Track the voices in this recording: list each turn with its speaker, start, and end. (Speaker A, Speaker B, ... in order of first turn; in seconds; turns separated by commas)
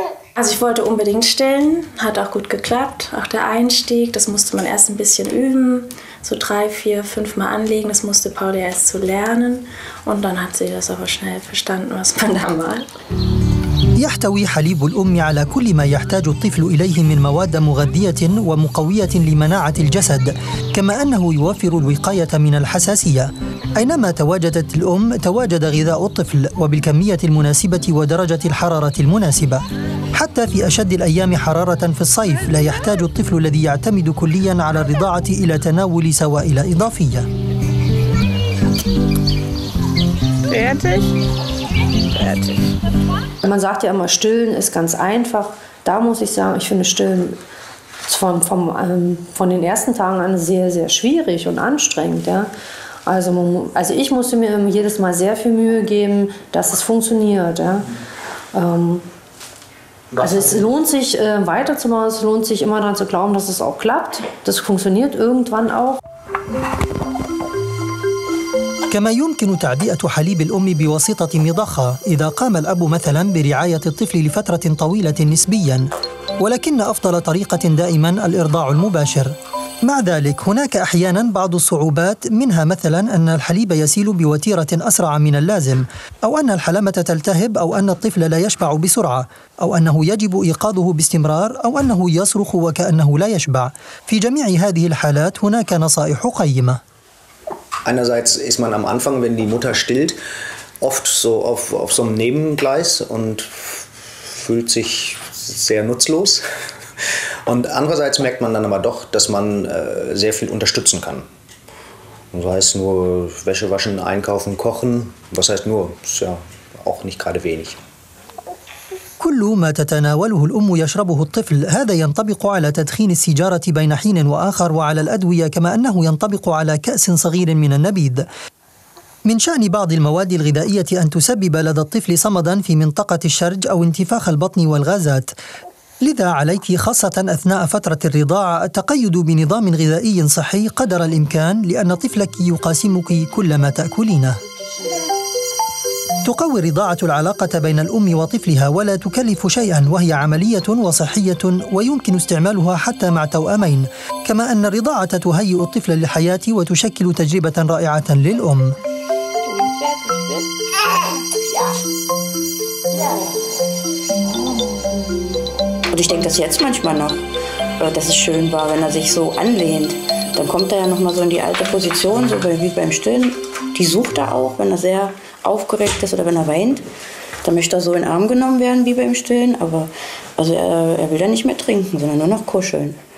Speaker A: 0.4-12.9, Speaker B: 14.0-29.6, Speaker B: 30.1-37.3, Speaker C: 40.5-41.2, Speaker C: 42.1-42.6, Speaker D: 43.4-47.4, Speaker D: 48.0-52.5, Speaker D: 53.1-57.9, Speaker D: 58.5-59.0, Speaker D: 60.1-66.0, Speaker B: 68.9-96.8, Speaker E: 97.9-100.2, Speaker E: 100.8-106.4, Speaker E: 107.5-111.2, Speaker E: 112.3-117.8, Speaker B: 119.2-128.2, Speaker B: 129.3-135.3, Speaker B: 136.0-144.4, Speaker B: 146.2-158.8, Speaker C: 159.5-160.5, Speaker F: 165.9-167.2, Speaker F: 167.8-176.8, Speaker F: 177.4-183.0